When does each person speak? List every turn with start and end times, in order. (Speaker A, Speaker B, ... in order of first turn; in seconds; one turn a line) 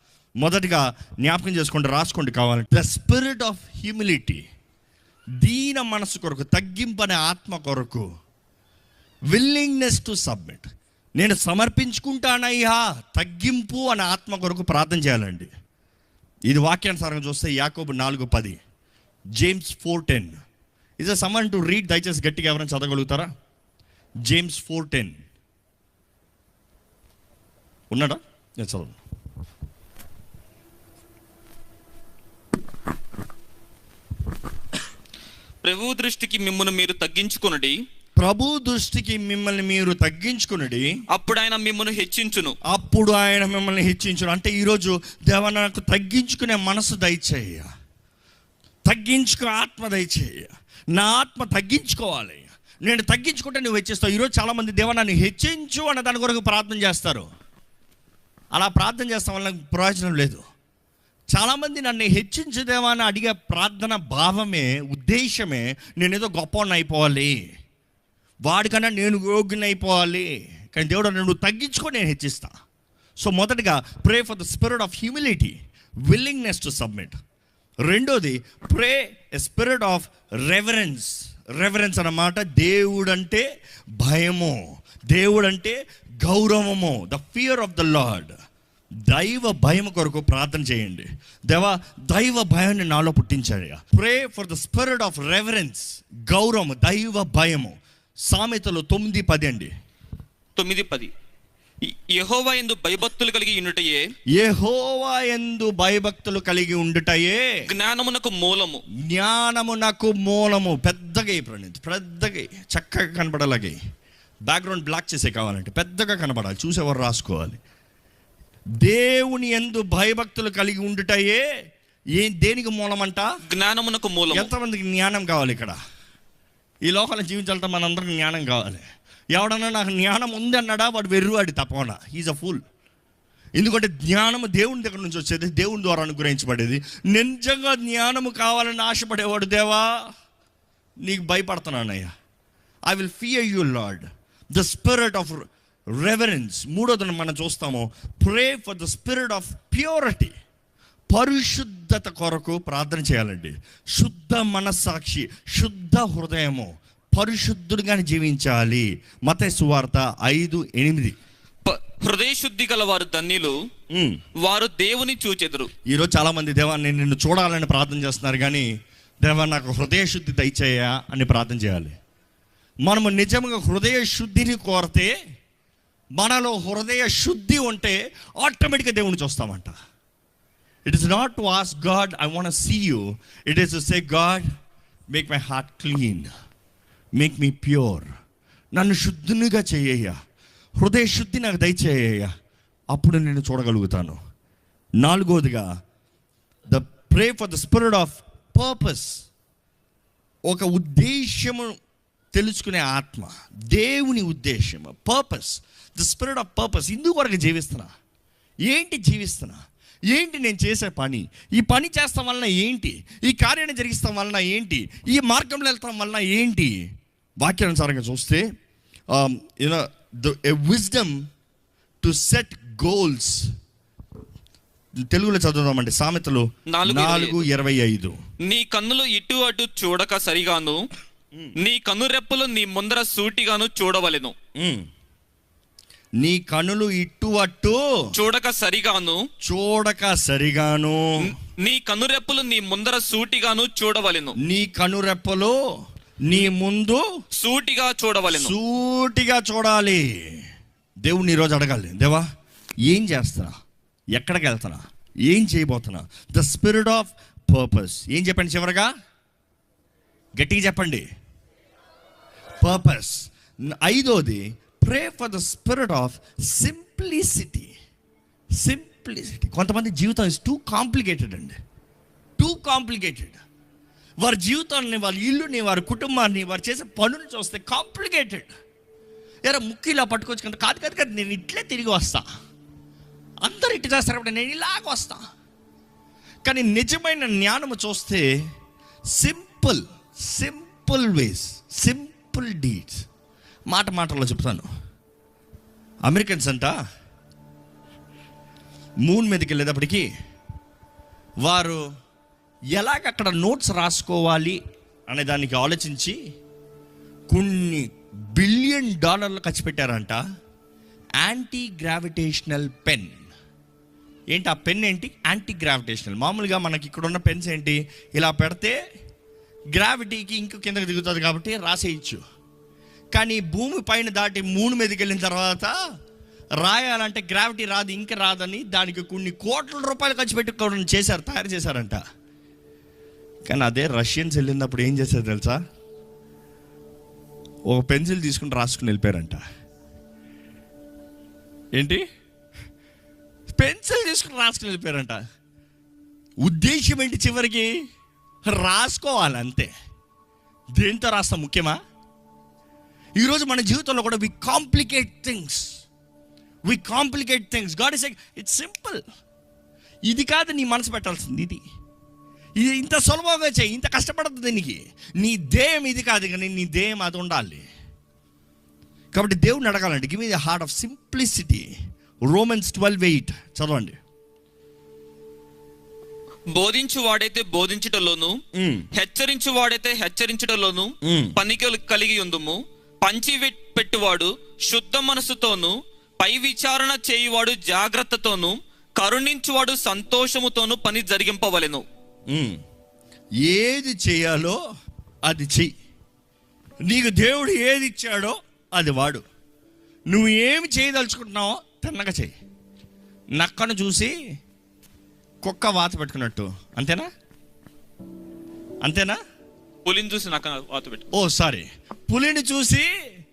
Speaker A: 0.4-4.4
Speaker A: 5.4-8.1
Speaker A: 9.3-15.5
Speaker A: 16.5-18.6
Speaker A: 19.4-20.4
Speaker A: 21.0-23.3
Speaker A: 24.3-25.2
Speaker A: 27.9-29.0
Speaker B: 35.6-37.8
Speaker A: 38.2-40.9
Speaker B: 41.1-42.5
Speaker A: 42.7-47.7
Speaker A: 48.9-57.3
Speaker A: 58.5-60.4
Speaker A: 61.3-67.4
Speaker A: 68.5-72.5
Speaker A: 73.2-77.2
Speaker A: 77.8-83.5
Speaker A: 84.0-88.3
Speaker A: 89.1-97.8
Speaker A: 98.3-99.7
Speaker B: 100.5-101.1
Speaker B: 101.8-104.0
Speaker A: 104.3-107.7
Speaker B: 107.7-108.8
Speaker A: 109.0-113.8
Speaker A: 114.5-117.6
Speaker A: 118.8-121.4
Speaker A: 122.2-123.3
Speaker B: 123.5-124.5
Speaker A: 124.3-125.8
Speaker A: 126.8-128.8
Speaker A: 129.3-132.6
Speaker A: 133.6-140.1
Speaker A: 141.0-142.1
Speaker A: 142.9-150.3
Speaker A: 151.1-161.2
Speaker B: 161.6-163.6
Speaker A: 163.9-164.2
Speaker B: 164.4-165.7
Speaker A: 165.9-168.7
Speaker A: 169.2-171.9
Speaker A: 172.8-175.1
Speaker A: 176.2-179.7
Speaker A: 180.9-184.5
Speaker A: 185.1-186.3
Speaker A: 187.2-188.1
Speaker A: 188.7-190.2
Speaker A: 190.8-192.3
Speaker A: 192.9-194.2
Speaker A: 195.0-195.7
Speaker A: 196.7-199.2
Speaker A: 200.5-201.7
Speaker A: 202.3-207.9
Speaker A: 208.7-216.8
Speaker A: 217.4-218.4
Speaker A: 219.1-221.2
Speaker A: 222.0-223.5
Speaker A: 225.0-228.2
Speaker B: 226.7-227.4
Speaker B: 228.5-230.8
Speaker B: 231.6-234.3
Speaker A: 234.6-234.9
Speaker A: 236.2-237.8
Speaker B: 238.1-239.2
Speaker A: 239.4-241.3
Speaker B: 241.2-244.3
Speaker A: 244.4-245.6
Speaker A: 246.2-247.0
Speaker B: 247.3-248.5
Speaker A: 248.3-250.4
Speaker A: 251.0-252.2
Speaker A: 252.9-253.5
Speaker A: 254.1-258.9
Speaker A: 260.4-261.1
Speaker A: 262.6-267.7
Speaker A: 268.6-271.6
Speaker A: 272.4-273.4
Speaker A: 274.2-278.5
Speaker A: 279.5-282.3
Speaker A: 283.4-285.2
Speaker A: 286.4-288.2
Speaker A: 289.1-293.0
Speaker A: 293.7-294.7
Speaker A: 296.1-296.8
Speaker A: 299.0-300.1
Speaker A: 301.4-301.8
Speaker A: 302.7-306.2
Speaker A: 307.3-310.2
Speaker A: 311.2-313.3
Speaker A: 314.3-318.8
Speaker A: 319.7-322.2
Speaker A: 323.1-325.7
Speaker A: 326.6-332.0
Speaker A: 333.4-335.6
Speaker A: 337.7-339.4
Speaker A: 341.7-342.0
Speaker A: 343.5-345.2
Speaker A: 346.4-347.8
Speaker A: 348.4-349.7
Speaker A: 350.8-351.8
Speaker A: 353.2-355.8
Speaker A: 356.6-359.0
Speaker A: 360.1-361.6
Speaker A: 362.6-367.6
Speaker A: 369.1-371.7
Speaker A: 372.3-373.9
Speaker B: 376.5-378.4
Speaker A: 378.6-378.9
Speaker B: 378.9-391.8
Speaker A: 381.0-381.3
Speaker A: 392.3-392.6
Speaker A: 393.4-394.6
Speaker A: 395.2-395.7
Speaker A: 396.9-399.2
Speaker A: 400.1-402.3
Speaker A: 403.4-404.1
Speaker A: 405.4-407.1
Speaker A: 408.8-409.2
Speaker B: 409.8-411.1
Speaker A: 411.1-412.9